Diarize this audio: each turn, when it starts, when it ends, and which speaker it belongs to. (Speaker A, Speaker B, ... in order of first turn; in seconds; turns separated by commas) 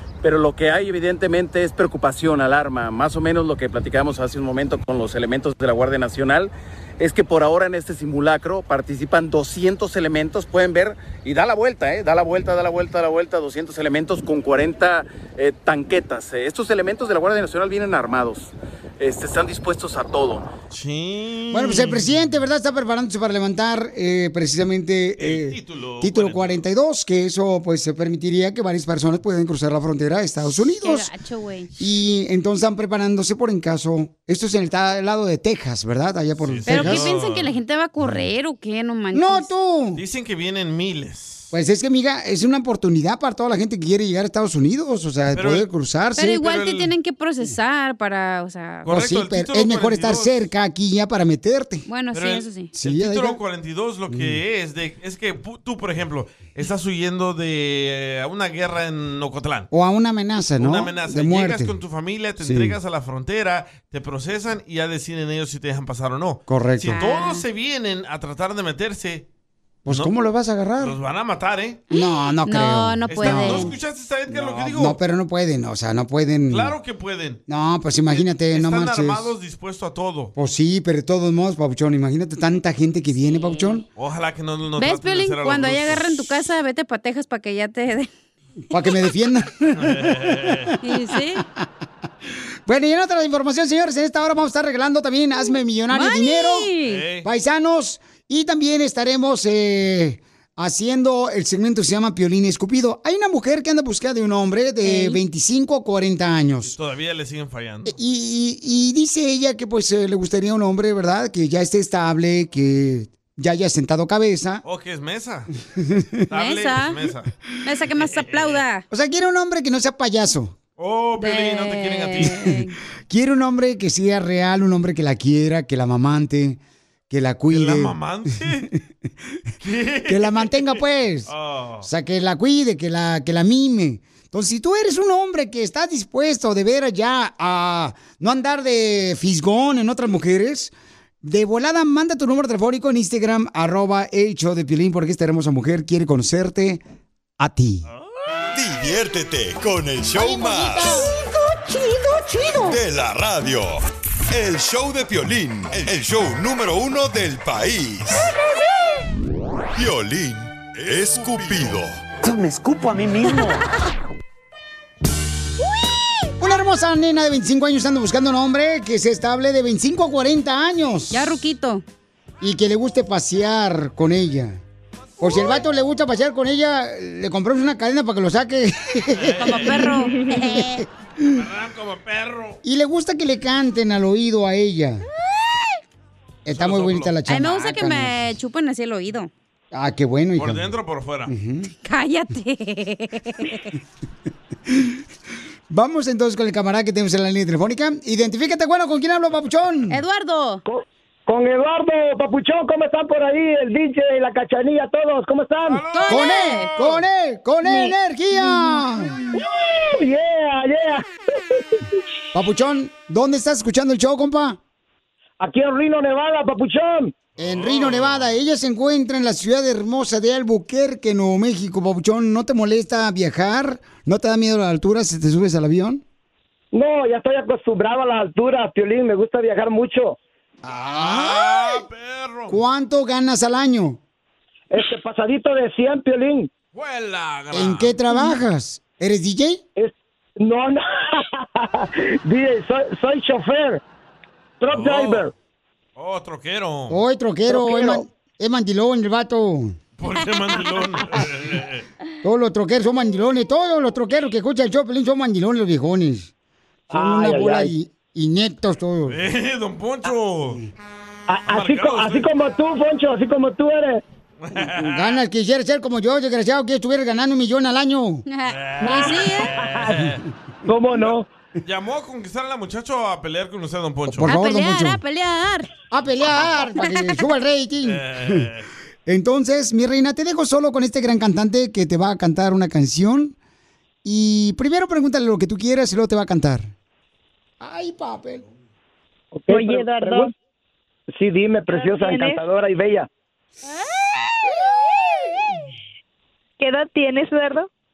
Speaker A: 0.2-20.5, Speaker B: 20.7-22.1, Speaker C: 21.5-31.1, Speaker B: 25.2-26.6, Speaker D: 30.8-31.7, Speaker C: 31.8-37.1, Speaker B: 36.4-37.5, Speaker D: 36.7-39.5, Speaker C: 39.1-40.0, Speaker B: 40.0-41.5, Speaker C: 41.5-46.5, Speaker B: 45.3-45.7, Speaker D: 46.2-48.9, Speaker B: 46.3-46.9, Speaker B: 48.9-50.5, Speaker C: 48.9-51.9, Speaker D: 51.9-52.7, Speaker B: 52.1-59.7, Speaker C: 52.7-53.4, Speaker C: 54.1-54.4, Speaker C: 59.7-61.7, Speaker B: 60.6-69.3, Speaker C: 62.4-62.8, Speaker C: 66.5-67.0, Speaker D: 66.9-67.4, Speaker C: 69.9-71.0, Speaker B: 69.9-70.1, Speaker B: 70.8-71.8, Speaker C: 71.9-73.7, Speaker D: 71.9-73.7, Speaker B: 73.1-75.0, Speaker C: 74.3-76.8, Speaker B: 76.5-77.4, Speaker C: 77.5-79.3, Speaker B: 78.1-80.3, Speaker C: 80.4-83.9, Speaker D: 83.3-83.8, Speaker B: 84.0-86.3, Speaker D: 84.8-88.1, Speaker C: 88.7-90.7, Speaker B: 89.8-90.7, Speaker D: 90.8-91.5, Speaker C: 92.7-106.7, Speaker D: 95.9-97.0, Speaker B: 96.8-97.3, Speaker D: 104.8-105.2, Speaker B: 106.6-108.0, Speaker C: 107.9-114.6, Speaker B: 114.6-115.5, Speaker B: 116.3-117.3, Speaker D: 116.3-117.0, Speaker D: 117.6-118.8, Speaker B: 117.9-118.6, Speaker C: 118.9-120.6, Speaker B: 120.8-122.4, Speaker D: 121.2-122.7, Speaker C: 122.2-122.6, Speaker C: 123.1-127.9, Speaker B: 127.5-128.7, Speaker B: 129.6-131.9, Speaker C: 130.1-140.7, Speaker C: 141.2-146.8, Speaker C: 147.4-147.9, Speaker E: 148.5-151.1, Speaker E: 152.6-158.3, Speaker E: 159.8-162.0, Speaker C: 166.4-171.3, Speaker D: 171.1-171.8, Speaker C: 172.4-174.6, Speaker C: 175.2-179.8, Speaker B: 179.2-179.9, Speaker D: 179.4-180.8, Speaker C: 180.4-181.3, Speaker B: 181.3-182.6, Speaker C: 182.6-185.0, Speaker C: 186.4-188.2, Speaker B: 186.5-187.2, Speaker D: 187.3-189.3, Speaker C: 189.7-190.7, Speaker B: 190.4-191.3, Speaker C: 191.3-191.7, Speaker D: 191.8-193.6, Speaker C: 194.7-195.0, Speaker C: 195.7-200.0, Speaker D: 199.9-200.6, Speaker F: 200.7-205.8, Speaker B: 205.7-207.0, Speaker D: 205.9-206.7, Speaker C: 206.1-209.2, Speaker F: 209.3-211.8, Speaker C: 212.3-214.6, Speaker F: 215.4-217.1, Speaker B: 217.4-218.3, Speaker C: 217.4-226.0, Speaker F: 226.7-230.2, Speaker C: 230.7-231.8, Speaker B: 231.0-232.6, Speaker C: 232.5-234.0, Speaker F: 234.7-236.5, Speaker B: 236.7-237.9, Speaker C: 237.5-239.6, Speaker F: 239.8-243.8, Speaker F: 244.6-245.3, Speaker B: 244.7-245.3, Speaker B: 246.0-247.0, Speaker C: 246.9-249.8, Speaker F: 247.5-248.1, Speaker B: 250.0-251.8, Speaker C: 252.2-256.3, Speaker F: 256.9-257.7, Speaker C: 256.9-259.2, Speaker B: 259.1-260.6, Speaker F: 261.3-264.0, Speaker B: 261.5-262.3, Speaker B: 264.4-265.2, Speaker C: 264.8-268.2, Speaker D: 268.3-269.5, Speaker B: 268.5-270.2, Speaker F: 268.8-270.0, Speaker F: 270.7-271.3, Speaker B: 271.6-274.3, Speaker C: 274.1-275.0, Speaker D: 274.2-275.7, Speaker C: 275.9-278.5, Speaker B: 277.9-278.7, Speaker C: 279.1-283.4, Speaker C: 284.0-286.7, Speaker C: 287.6-288.4, Speaker F: 289.3-290.3, Speaker G: 289.5-290.3, Speaker F: 291.1-293.1, Speaker G: 291.7-292.4, Speaker G: 296.6-297.7